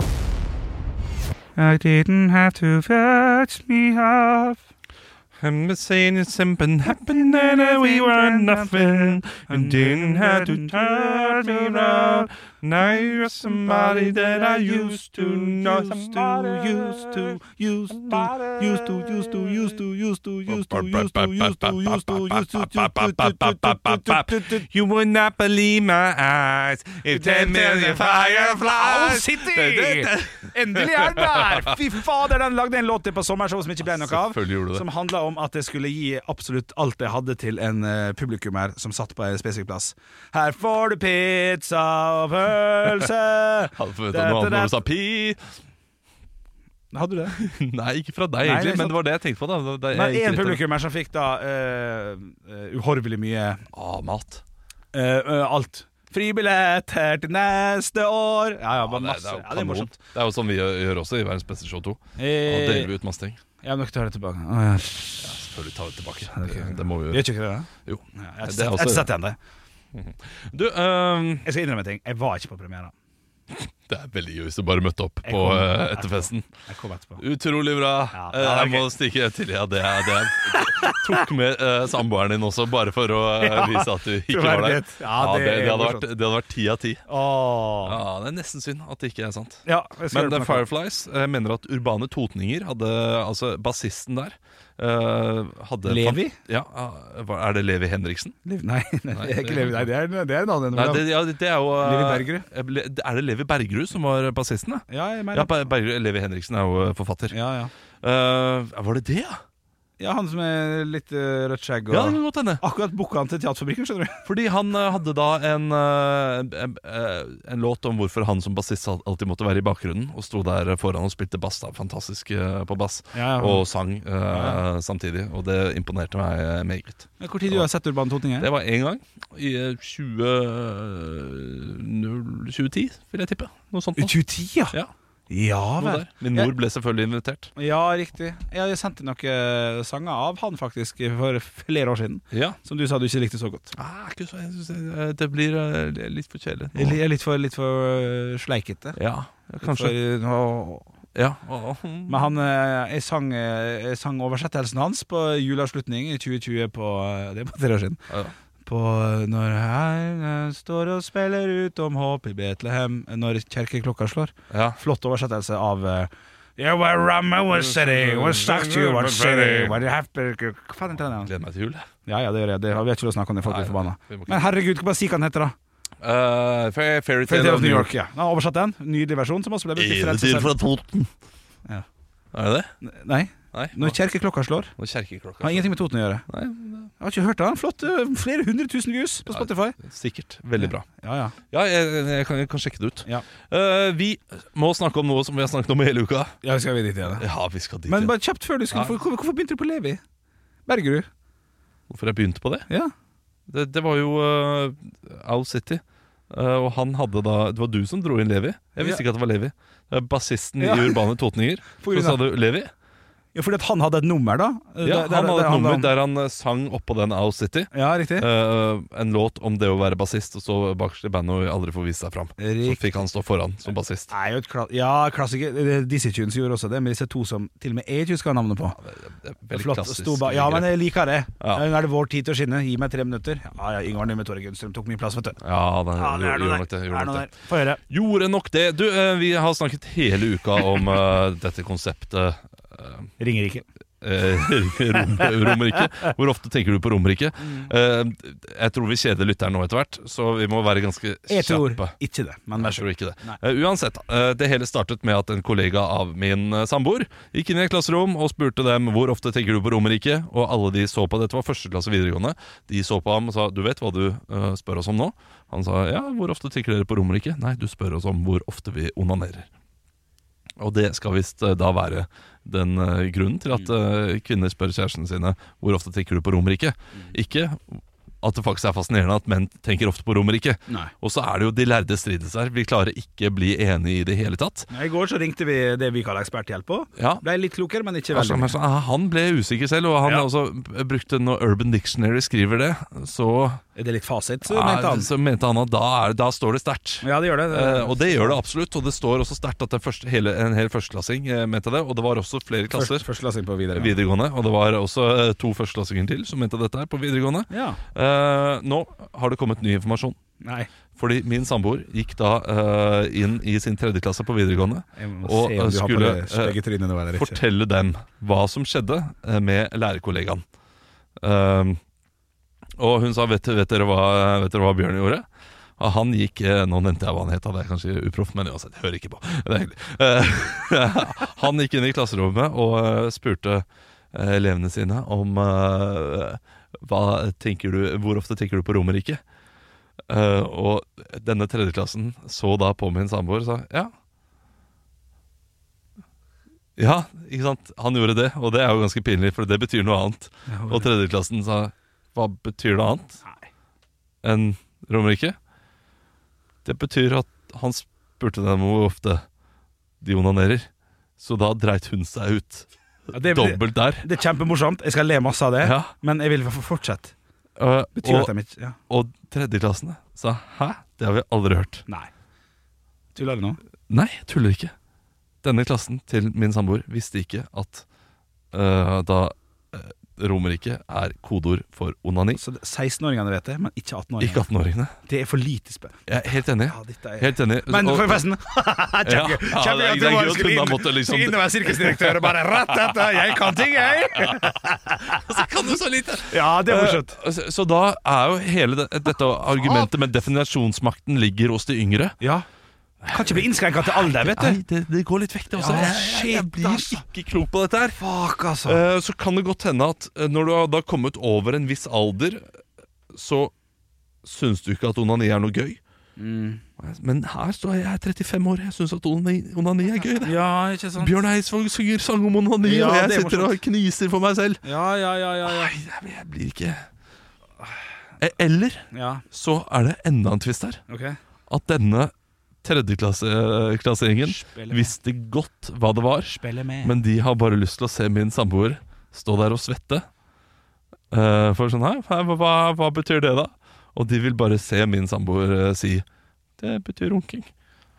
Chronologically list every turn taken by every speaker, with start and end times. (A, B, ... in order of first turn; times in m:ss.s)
0:01.6-0:04.6 A
0:05.4-0:17.4 B
0:07.1-0:12.3 A
0:13.8-0:24.7 A
0:17.9-0:19.8 B
0:20.5-0:31.8 B
0:27.1-0:44.8 A
0:33.8-0:34.9 B
0:43.8-0:45.4 B
0:46.9-0:47.4 A
0:47.4-0:50.6 B
0:48.4-0:49.0 A
0:49.9-0:53.6 A
0:53.7-0:54.4 B
0:54.9-1:00.0 A
0:58.8-1:03.4 B
1:02.2-1:02.9 A
1:03.6-1:05.3 A
1:05.2-1:07.3 B
1:06.4-1:09.4 A
1:07.8-1:09.1 B
1:09.9-1:11.5 B
1:11.4-1:12.9 A
1:13.5-1:16.5 B
1:15.2-1:17.2 A
1:17.2-1:27.0 B
1:18.1-1:18.9 A
1:20.5-1:21.1 A
1:23.4-1:26.1 A
1:27.1-1:28.0 A
1:27.8-1:38.4 B
1:29.7-1:30.6 A
1:35.9-1:36.4 A
1:38.4-1:41.1 A
1:39.1-1:39.9 B
1:40.7-1:47.4 B
1:41.8-1:42.5 A
1:44.9-1:45.5 A
1:47.3-1:47.7 A
1:48.0-1:49.4 B
1:50.0-1:54.2 A
1:51.9-1:52.6 B
1:54.2-2:07.7 B
2:03.1-2:03.6 A
2:04.3-2:04.6 A
2:07.2-2:08.5 A
2:08.4-2:14.1 B
2:14.0-2:14.8 A
2:15.3-2:16.5 A
2:15.8-2:17.5 B
2:17.6-2:23.7 A
2:22.3-2:22.6 B
2:23.8-2:27.0 B
2:26.8-2:29.0 A
2:29.0-2:30.0 B
2:29.6-2:30.9 A
2:31.2-2:32.3 B
2:32.1-2:38.0 A
2:38.6-2:51.3 A
2:44.5-2:44.8 B
2:47.5-2:49.9 B
2:51.2-2:51.9 B
2:52.0-2:55.6 A
2:53.4-2:54.4 B
2:56.0-2:57.9 B
2:57.3-3:00.5 A
2:59.8-3:01.1 B
3:02.3-3:02.7 B
3:02.8-3:04.7 A
3:03.5-3:04.0 B
3:04.8-3:05.7 B
3:05.4-3:06.2 A
3:06.3-3:06.9 B
3:07.0-3:09.8 A
3:09.3-3:10.9 B
3:10.6-3:11.4 A
3:11.5-3:16.4 B
3:16.4-3:17.2 A
3:17.1-3:18.1 B
3:17.9-3:20.0 A
3:18.7-3:19.0 B
3:20.7-3:21.1 A
3:21.9-3:22.7 B
3:23.5-3:32.7 B
3:30.6-3:31.0 A
3:31.8-3:32.2 A
3:33.3-3:35.9 A
3:34.8-3:44.1 B
3:37.7-3:38.3 A
3:42.4-3:43.0 A
3:44.1-3:48.8 A
3:48.8-3:50.8 B
3:49.5-3:55.4 A
3:51.4-3:51.7 B
3:55.4-3:57.3 B
3:56.0-3:57.8 A
3:57.9-4:03.1 B
4:03.2-4:03.7 A
4:04.0-4:11.9 B
4:05.1-4:05.8 A
4:07.4-4:07.7 A
4:11.3-4:13.4 A
4:12.6-4:29.5 B
4:30.6-4:44.7 B
4:44.7-4:48.5 A
4:47.0-4:47.2 B
4:48.1-4:53.6 B
4:53.8-4:55.1 A
4:54.4-5:03.1 B
4:57.0-4:58.4 A
5:02.7-5:04.0 A
5:03.7-5:10.2 B
5:07.5-5:07.8 A
5:10.4-5:10.7 A
5:11.0-5:16.6 B
5:15.0-5:17.4 A
5:17.1-5:20.4 B
5:21.2-5:21.8 B
5:22.8-5:25.3 B
5:25.8-5:39.2 B
5:40.1-5:43.9 B
5:46.8-5:53.2 B
5:50.5-5:50.9 A
5:54.2-5:55.4 B
5:56.6-5:59.2 B
6:00.0-6:04.1 B
6:03.1-6:07.1 A
6:05.6-6:05.9 B
6:07.6-6:08.3 B
6:08.0-6:08.8 A
6:08.9-6:11.9 B
6:13.2-6:13.6 A
6:13.9-6:14.8 B
6:15.4-6:17.8 B
6:18.5-6:22.4 B
6:22.4-6:24.4 A
6:24.2-6:24.9 B
6:25.1-6:26.0 A
6:26.1-6:28.3 B
6:26.7-6:35.2 A
6:29.0-6:33.2 B
6:35.1-6:42.2 B
6:36.3-6:37.2 A
6:42.2-6:42.5 A
6:43.0-6:48.0 B
6:43.1-6:44.6 A
6:45.5-6:47.0 A
6:48.0-6:48.8 A
6:48.6-6:52.5 B
6:53.1-6:53.5 B
6:54.2-6:55.8 B
6:56.2-6:56.6 A
6:56.8-7:00.4 B
7:00.2-7:01.1 A
7:01.0-7:04.7 B
7:02.6-7:03.6 A
7:04.6-7:05.7 A
7:05.4-7:06.9 B
7:08.2-7:10.8 B
7:08.9-7:09.2 A
7:10.9-7:11.2 A
7:11.5-7:12.1 B
7:12.6-7:20.1 B
7:14.2-7:14.9 A
7:16.3-7:17.0 A
7:21.1-7:26.0 B
7:26.6-7:27.5 B